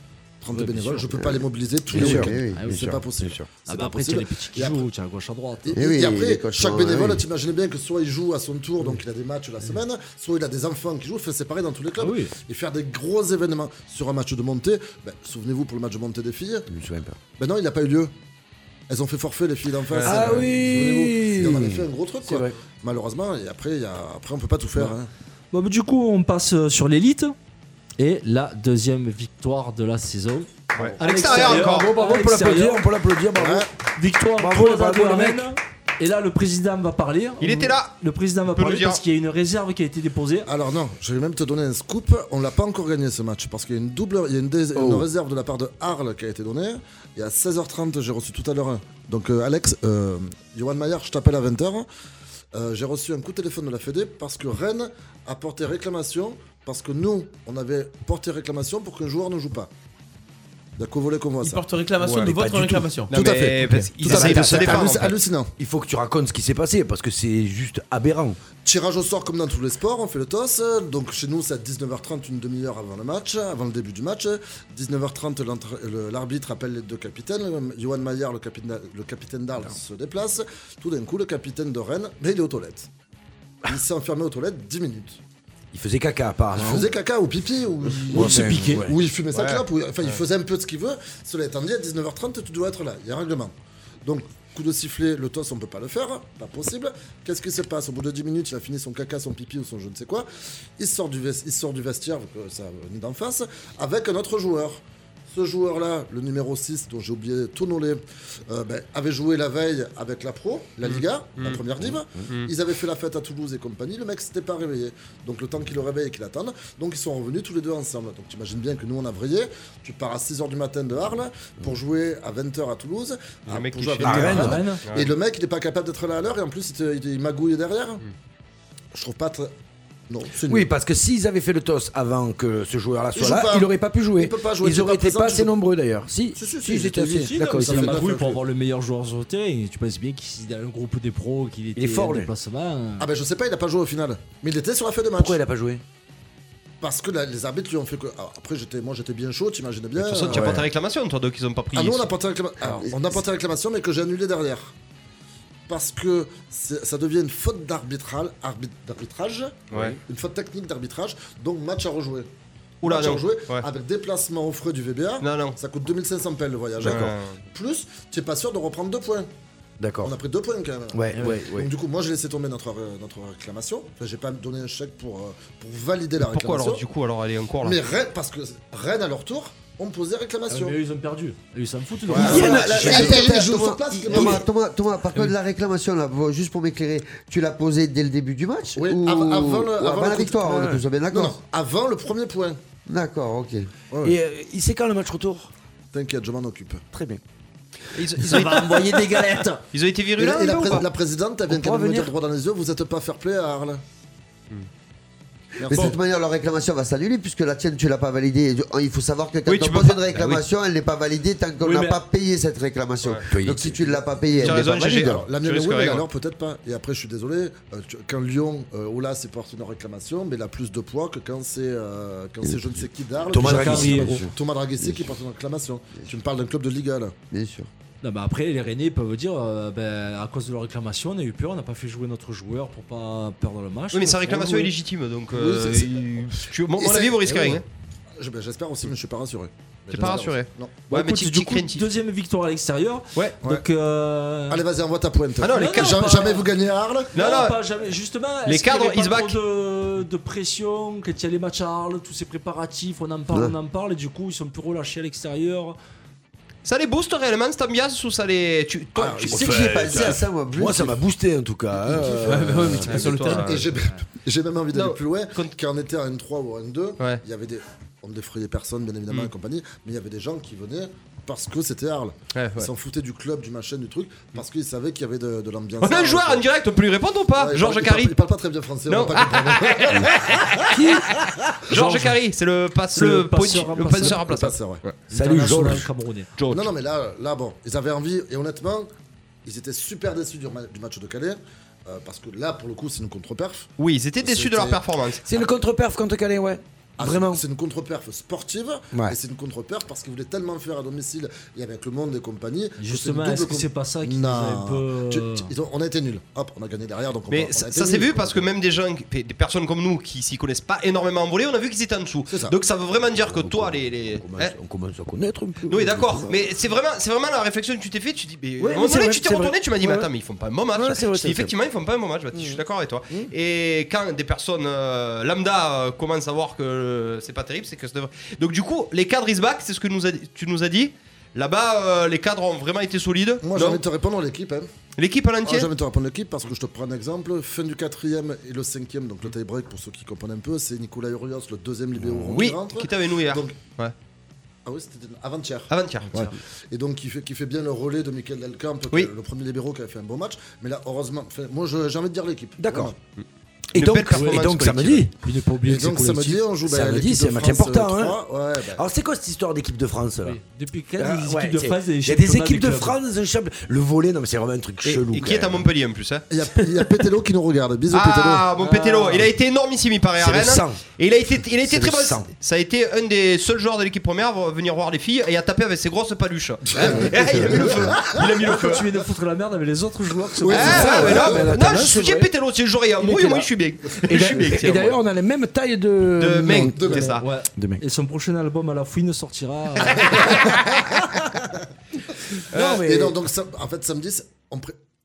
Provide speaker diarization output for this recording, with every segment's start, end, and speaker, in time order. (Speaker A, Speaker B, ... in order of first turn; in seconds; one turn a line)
Speaker A: 0.4-4.9
Speaker B: 0.5-1.1
Speaker C: 1.1-2.9
Speaker B: 1.9-3.5
Speaker D: 2.6-2.9
Speaker D: 3.7-5.8
Speaker A: 5.7-16.7
Speaker C: 5.7-7.2
Speaker D: 12.0-12.3
Speaker B: 16.7-17.2
Speaker A: 17.4-18.1
Speaker A: 18.9-25.1
Speaker E: 19.9-20.5
Speaker B: 20.0-22.5
Speaker D: 25.5-27.3
Speaker D: 28.0-32.9
Speaker E: 30.8-32.0
Speaker B: 30.8-33.7
Speaker A: 33.4-33.7
Speaker D: 34.0-40.5
Speaker B: 34.4-35.5
Speaker E: 37.4-37.9
Speaker E: 38.5-39.0
Speaker A: 40.5-51.9
Speaker B: 44.8-45.1
Speaker A: 52.5-59.7
Speaker A: 60.8-61.7
Speaker F: 61.4-63.1
Speaker E: 62.0-62.3
Speaker B: 62.2-65.1
Speaker E: 63.1-65.2
Speaker A: 63.1-65.5
Speaker B: 65.6-68.4
Speaker A: 68.7-82.9
Speaker A: 83.7-85.2
Speaker B: 85.7-86.9
Speaker A: 86.5-93.5
Speaker B: 88.1-89.0
Speaker E: 89.3-90.2
Speaker A: 94.0-100.3
Speaker A: 100.8-128.0
Speaker E: 110.8-111.6
Speaker B: 111.9-112.2
Speaker E: 123.5-125.1
Speaker B: 124.0-124.6
Speaker D: 124.3-124.8
Speaker A: 128.9-129.5
Speaker A: 130.1-130.7
Speaker B: 130.5-138.1
Speaker A: 133.2-135.6
Speaker A: 136.4-138.4
Speaker D: 137.0-143.1
Speaker B: 141.8-142.3
Speaker A: 143.0-145.4
Speaker B: 145.2-145.8
Speaker A: 146.8-150.7
Speaker E: 150.0-152.1
Speaker B: 150.3-150.7
Speaker A: 151.7-154.7
Speaker A: 155.7-162.3
Speaker E: 159.7-160.0
Speaker B: 159.7-160.0
Speaker E: 162.8-163.7
Speaker A: 162.8-169.3
Speaker E: 165.2-165.6
Speaker B: 166.8-167.2
Speaker E: 166.8-167.4
Speaker B: 169.8-170.1
Speaker A: 170.0-176.8
Speaker B: 170.9-171.7
Speaker E: 176.2-177.8
Speaker A: 177.6-180.8
Speaker D: 180.5-183.1
Speaker A: 182.1-184.4
Speaker B: 182.1-183.4
Speaker C: 182.2-191.4
Speaker B: 184.1-184.4
Speaker A: 188.8-190.4
Speaker B: 190.4-190.8
Speaker A: 191.1-192.6
Speaker C: 192.9-193.7
Speaker A: 193.9-194.2
Speaker B: 194.0-195.5
Speaker A: 195.9-196.8
Speaker B: 196.9-197.2
Speaker E: 197.9-200.8
Speaker D: 198.2-199.6
Speaker A: 200.2-203.8
Speaker B: 201.5-202.1
Speaker A: 205.6-206.0
Speaker C: 205.7-215.3
Speaker E: 209.5-210.4
Speaker D: 211.6-212.0
Speaker B: 213.3-214.0
Speaker A: 214.4-227.2
Speaker E: 214.4-216.0
Speaker B: 223.3-224.2
Speaker C: 223.3-225.1
Speaker D: 223.4-224.2
Speaker C: 227.3-227.7
Speaker D: 228.0-234.7
Speaker E: 233.9-237.6
Speaker A: 235.3-236.2
Speaker A: 236.8-237.6
Speaker A: 238.2-240.8
Speaker E: 239.9-241.9
Speaker D: 240.9-244.6
Speaker A: 244.5-247.2
Speaker E: 245.4-246.1
Speaker D: 245.5-246.5
Speaker D: 247.1-255.8
Speaker E: 247.1-247.6
Speaker E: 248.5-249.4
Speaker E: 256.6-259.6
Speaker A: 259.0-260.1
Speaker C: 259.3-261.0
Speaker B: 259.3-263.3
Speaker A: 261.9-276.5
Speaker F: 262.3-263.6
Speaker E: 262.8-263.6
Speaker D: 263.7-264.0
Speaker E: 264.7-265.5
Speaker E: 272.3-272.7
Speaker E: 275.8-278.1
Speaker A: 277.4-280.8
Speaker E: 278.9-285.0
Speaker B: 280.7-281.2
Speaker D: 281.8-282.1
Speaker D: 282.9-284.2
Speaker A: 284.0-284.8
Speaker D: 285.1-286.3
Speaker B: 285.1-285.9
Speaker E: 286.4-286.7
Speaker A: 286.5-288.9
Speaker A: 289.4-293.7
Speaker E: 293.8-295.2
Speaker A: 294.2-294.8
Speaker B: 295.2-297.4
Speaker A: 297.0-308.5
Speaker D: 302.8-305.5
Speaker E: 307.3-314.5
Speaker A: 312.3-312.6
Speaker B: 313.1-316.5
Speaker E: 315.7-333.8
Speaker B: 318.6-320.1
Speaker B: 320.7-321.5
Speaker B: 322.3-322.6
Speaker A: 333.4-334.7
Speaker E: 335.0-335.7
Speaker A: 335.4-343.6
Speaker B: 342.0-342.5
Speaker E: 342.3-343.9
Speaker A: 344.7-353.0
Speaker E: 345.7-346.1
Speaker B: 352.6-352.9
Speaker E: 353.2-355.1
Speaker B: 353.7-355.1
Speaker D: 355.2-356.4
Speaker A: 355.6-358.8
Speaker B: 356.6-358.2
Speaker B: 358.7-360.4
Speaker D: 360.2-363.0
Speaker B: 361.0-365.7
Speaker E: 364.9-366.3
Speaker A: 366.3-368.5
Speaker E: 367.9-378.9
Speaker D: 368.6-369.3
Speaker B: 370.2-370.8
Speaker B: 371.6-372.3
Speaker A: 376.7-378.7
Speaker D: 378.5-381.1
Speaker A: 380.4-381.5
Speaker E: 380.5-385.0
Speaker B: 380.5-382.3
Speaker B: 383.0-387.8
Speaker E: 386.2-387.2
Speaker A: 386.6-387.1
Speaker D: 387.0-390.2
Speaker E: 389.9-390.6
Speaker A: 390.0-390.9
Speaker B: 392.5-393.2
Speaker E: 392.5-392.8
Speaker A: 392.6-394.8